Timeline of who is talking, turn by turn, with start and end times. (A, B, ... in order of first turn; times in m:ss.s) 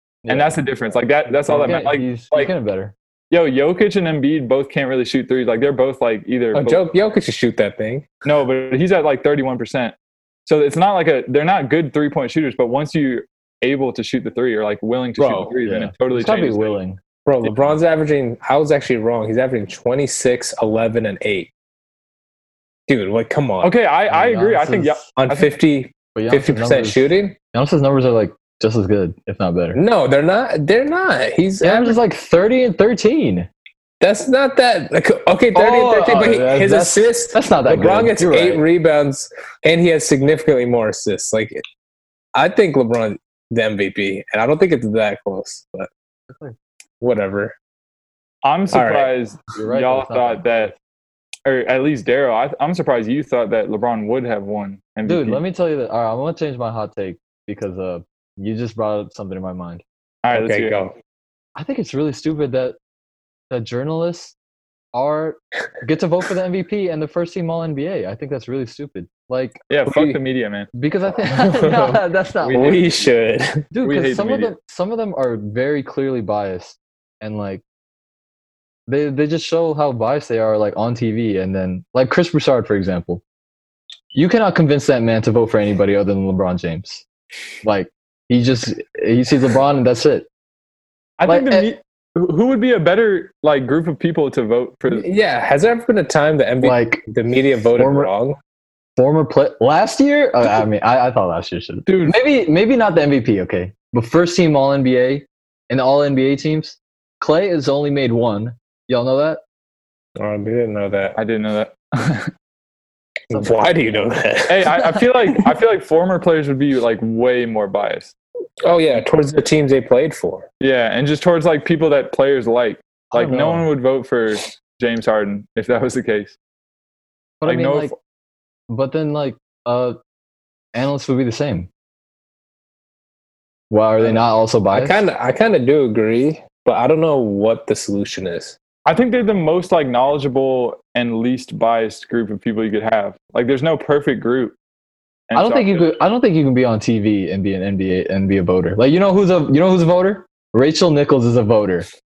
0:00.2-0:00.6 A
0:00.3-0:02.5 B
0:01.4-0:02.9 A
0:03.3-0:06.9 B
0:06.5-0:08.1 C
0:08.2-0:10.0 B
0:10.5-0:16.8 B
0:15.2-0:15.5 C
0:15.6-0:17.0 A
0:17.3-0:21.5 C
0:22.9-0:23.7 C
0:23.6-0:25.5 B
0:24.1-0:25.0 A
0:25.2-0:27.4 C
0:26.2-0:29.8 A
0:29.7-0:32.0 C
0:31.6-0:33.5 A
0:34.0-0:41.6 C
0:35.5-0:38.6 A
0:42.4-0:45.9 C
0:46.3-0:46.6 A
0:47.0-0:47.6 C
0:48.4-0:50.7 B
0:48.7-0:49.1 C
0:49.6-0:50.8 A
0:51.4-0:55.4 B
0:55.0-0:59.8 A
1:00.2-1:00.8 B
1:00.3-1:01.0 C
1:01.6-1:02.8 A
1:03.5-1:04.4 A
1:04.9-1:09.6 A
1:09.7-1:10.7 B
1:09.8-1:10.2 C
1:10.7-1:12.9 A
1:11.3-1:12.0 C
1:12.4-1:12.9 B
1:12.5-1:13.7 C
1:13.7-1:17.6 A
1:13.8-1:14.5 B
1:18.9-1:23.2 A
1:24.1-1:27.0 A
1:27.6-1:30.3 A
1:31.2-1:35.1 B
1:31.3-1:31.7 A
1:34.9-1:38.4 C
1:36.6-1:37.0 A
1:37.7-1:38.1 A
1:39.0-1:49.4 A
1:41.9-1:42.2 B
1:50.2-1:51.2 C
1:51.2-1:52.3 B
1:53.3-1:55.0 C
1:54.5-1:58.1 B
1:58.6-2:00.5 C
2:00.6-2:06.4 B
2:03.1-2:03.7 A
2:07.4-2:07.9 A
2:07.4-2:07.9 B
2:08.7-2:10.0 A
2:10.8-2:11.7 A
2:13.7-2:15.0 A
2:14.0-2:18.6 C
2:18.9-2:24.5 B
2:25.3-2:25.9 B
2:25.3-2:31.9 A